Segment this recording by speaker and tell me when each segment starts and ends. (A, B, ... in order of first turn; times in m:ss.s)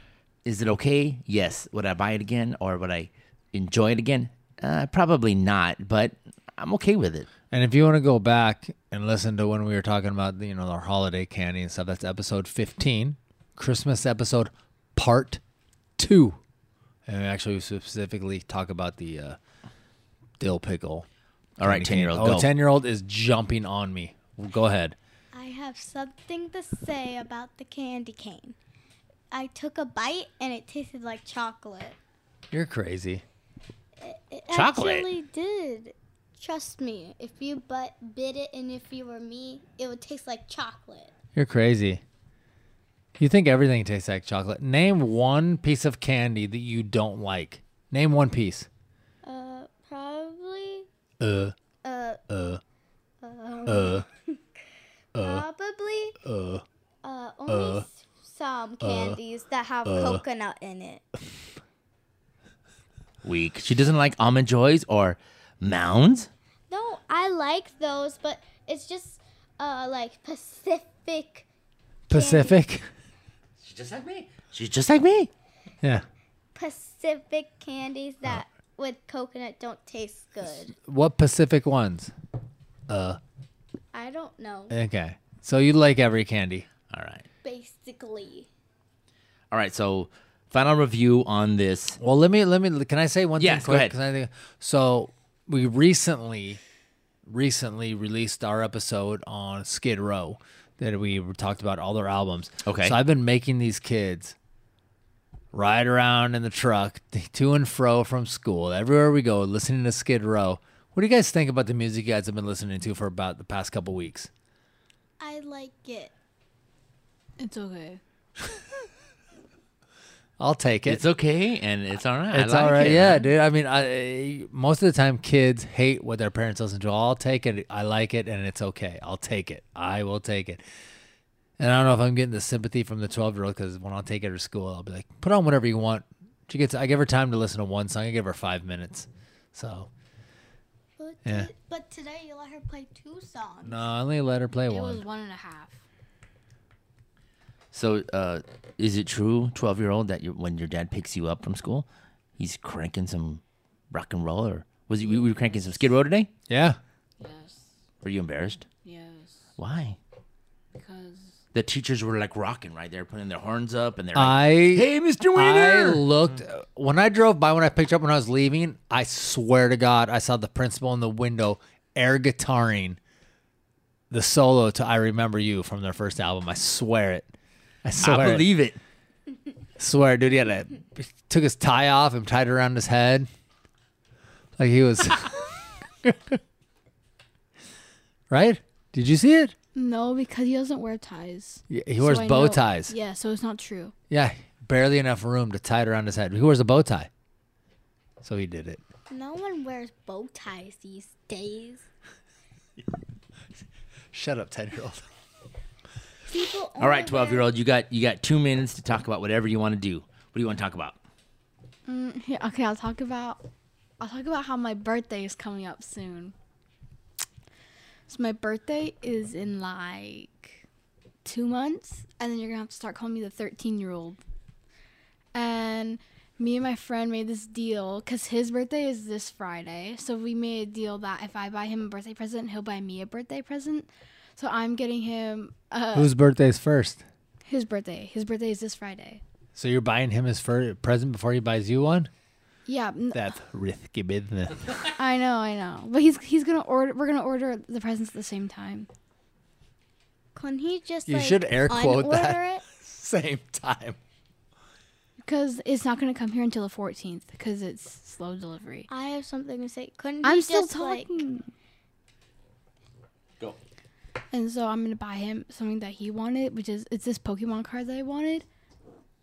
0:00.4-0:07.3 A
0:07.5-0:15.4 B
0:16.0-0:16.4 B
0:17.1-0:19.4 B
0:20.4-0:21.0 B
0:21.6-0:22.5 A
0:21.6-0:25.0 B
0:25.3-0:28.6 C
0:29.3-0:32.0 C
0:32.5-0:33.2 B
0:34.0-0:41.1 C
0:34.5-0:35.1 A
0:41.3-0:42.0 B
0:43.2-0:48.7 B
0:49.2-0:50.8 C
0:51.2-0:51.5 B
0:51.8-0:52.2 C
0:52.3-0:52.6 B
0:53.2-0:54.4 C
0:53.7-0:54.0 B
0:55.1-0:55.4 B
0:55.2-0:56.2 C
0:56.2-0:56.6 B
0:57.0-1:01.0 C
0:57.5-0:57.8 B
0:58.8-0:59.2 B
0:59.8-1:00.2 B
1:03.2-1:06.3 A
1:06.7-1:11.4 C
1:12.1-1:12.9 B
1:12.1-1:12.6 C
1:13.6-1:15.3 A
1:16.5-1:20.7 C
1:20.8-1:22.1 B
1:22.9-1:23.2 B
1:23.9-1:24.7 C
1:24.7-1:26.6 B
1:26.9-1:27.2 A
1:27.4-1:28.5 C
1:29.5-1:32.0 A
1:32.0-1:36.6 B
1:33.4-1:33.9 A
1:37.2-1:44.3 B
1:42.6-1:43.0 A
1:45.5-1:54.3 B
1:55.2-1:56.1 C
1:57.4-1:58.0 D
2:00.4-2:01.0 B
2:00.8-2:03.2 A
2:02.3-2:10.6 B
2:11.6-2:19.9 B
2:21.0-2:23.9 C
2:21.2-2:21.5 B
2:23.6-2:25.0 B
2:24.7-2:25.8 D
2:27.7-2:31.9 A
2:32.4-2:36.3 A
2:35.0-2:35.9 D
2:36.5-2:36.8 B
2:37.2-2:37.6 D
2:38.0-2:38.6 A
2:38.8-2:39.4 D
2:39.6-2:40.0 A
2:40.7-2:41.3 D
2:41.5-2:46.0 A
2:44.1-2:53.0 B
2:54.1-2:57.3 B
2:57.8-2:58.4 B
2:58.0-2:58.8 A
2:59.8-3:03.3 B
3:04.6-3:05.5 B
3:06.0-3:06.4 B
3:08.3-3:09.5 B
3:09.7-3:13.9 D
3:11.7-3:12.9 B
3:14.1-3:17.1 B
3:18.2-3:18.8 B
3:19.1-3:21.8 C
3:24.1-3:25.0 B
3:26.2-3:27.5 C
3:26.8-3:31.0 A
3:31.8-3:33.4 D
3:34.0-3:36.3 D
3:38.1-3:40.6 D
3:41.2-3:44.2 D
3:45.3-3:56.1 D
3:55.9-3:57.0 B
3:57.4-3:59.2 D
3:59.5-4:02.1 B
4:02.6-4:03.2 D
4:03.1-4:04.8 B
4:05.0-4:08.9 D
4:10.3-4:12.6 C
4:11.1-4:14.0 B
4:15.2-4:18.9 D
4:18.9-4:21.2 C
4:20.2-4:21.5 D
4:24.3-4:28.4 D